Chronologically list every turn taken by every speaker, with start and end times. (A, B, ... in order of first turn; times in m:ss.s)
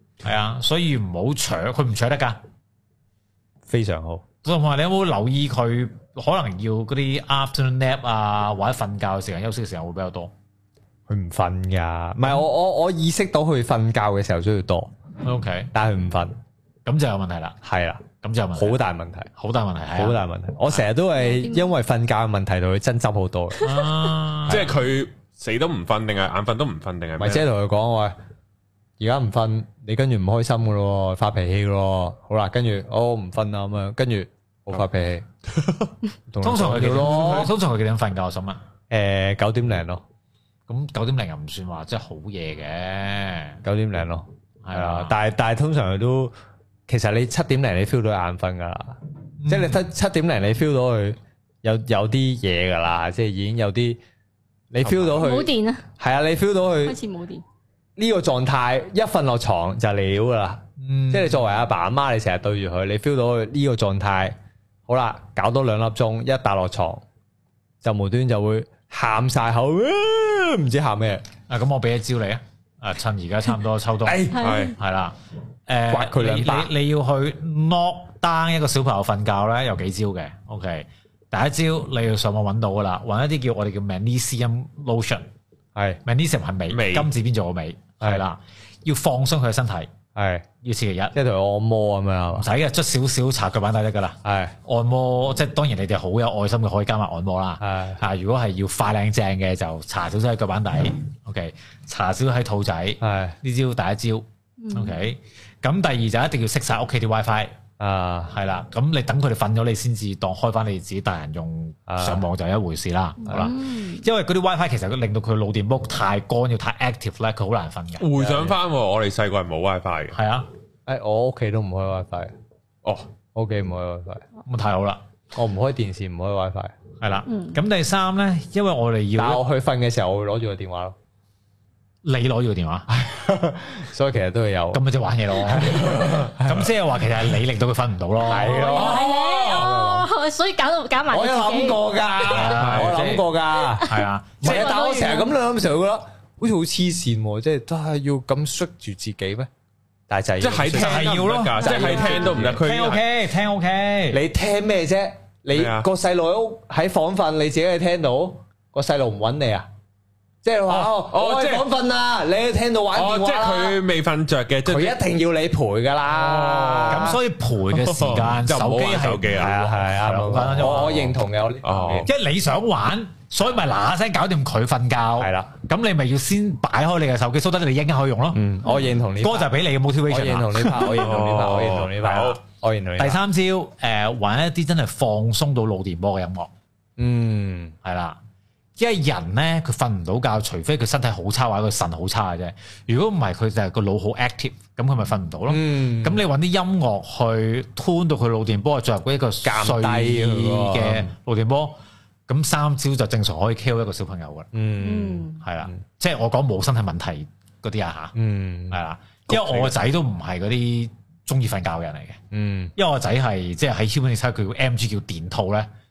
0:00.2-0:02.4 A
0:03.7-0:04.2 B
0:04.4-0:10.3 A
0:11.1-0:14.9 B
0:15.2-0:15.7 A
0:15.7-0:16.3 B
0:16.8-0:17.6 A
0:17.6-0:18.0 B
0:18.2-0:18.8 A
0:18.6-0:19.3 B
0:19.4-0:20.8 A
0:19.9-0:23.8 B
0:21.1-0:21.7 C
0:23.6-0:24.7 A
0:24.5-0:27.5 D
0:27.2-0:28.1 B
0:29.0-0:35.2 B
0:36.3-0:37.5 B
0:36.4-0:38.6 A
0:38.9-0:40.0 B
0:40.7-0:43.6 A
0:43.6-0:46.3 B
0:44.6-0:45.1 A
0:46.9-0:54.0 B
0:49.4-0:49.8 A
0:54.7-0:57.0 B
0:54.8-0:55.1 A
0:55.0-0:55.8 C
0:56.8-0:57.4 C
0:58.0-1:04.3 B
1:00.8-1:01.4 A
1:04.9-1:07.0 B
1:07.8-1:11.2 B
1:11.5-1:15.1 A
1:14.0-1:14.6 B
1:14.3-1:14.8 C
1:14.3-1:14.8 D
1:15.7-1:25.2 A
1:15.9-1:16.7 B
1:25.7-1:26.0 B
1:26.0-1:29.9 A
1:26.7-1:27.1 D
1:30.1-1:30.4 B
1:30.6-1:31.1 A
1:31.1-1:32.5 B
1:32.3-1:47.5 A
1:34.2-1:34.6 B
1:37.6-1:38.0 B
1:43.0-1:43.4 B
1:44.6-1:45.0 C
1:47.8-1:48.3 B
1:48.3-1:58.2 A
1:51.9-1:52.2 B
1:53.2-1:54.0 C
1:58.0-2:00.2 D
1:58.2-1:58.5 B
2:00.1-2:00.5 A
2:00.8-2:02.3 B
2:03.3-2:04.2 B
2:04.4-2:05.0 A
2:05.3-2:06.7 B
2:07.0-2:09.4 A
2:07.3-2:07.6 C
2:09.2-2:10.9 B
2:12.0-2:12.9 A
2:12.9-2:14.8 B
2:14.7-2:18.6 A
2:15.4-2:16.7 B
2:18.2-2:20.1 B
2:18.3-2:22.5 C
2:18.7-2:19.7 D
2:21.1-2:29.5 B
2:22.3-2:23.2 A
2:22.5-2:22.9 D
2:23.8-2:25.3 C
2:23.8-2:24.8 A
2:30.1-2:32.6 B
2:30.4-2:33.0 D
2:30.7-2:34.2 A
2:31.6-2:32.4 C
2:34.1-2:39.7 B
2:35.5-2:35.9 D
2:40.4-2:43.8 B
2:40.7-2:41.6 D
2:42.9-2:45.0 D
2:44.6-2:47.2 B
2:46.1-2:47.2 D
2:46.9-2:51.2 A
2:47.7-2:49.6 D
2:49.3-2:52.1 B
2:51.6-2:52.1 D
2:52.0-2:58.4 A
2:55.2-2:55.5 B
2:58.3-2:59.5 B
2:59.2-3:01.1 A
3:00.1-3:03.2 B
3:01.0-3:02.4 D
3:03.0-3:06.5 A
3:07.0-3:07.7 B
3:07.8-3:08.2 A
3:08.8-3:24.5 A
3:15.5-3:16.2 B
3:19.4-3:21.1 B
3:24.5-3:25.8 B
3:24.8-3:25.4 C
3:25.4-3:28.1 A
3:28.2-3:29.7 B
3:28.7-3:32.2 A
3:32.3-3:32.7 B
3:32.8-3:35.7 A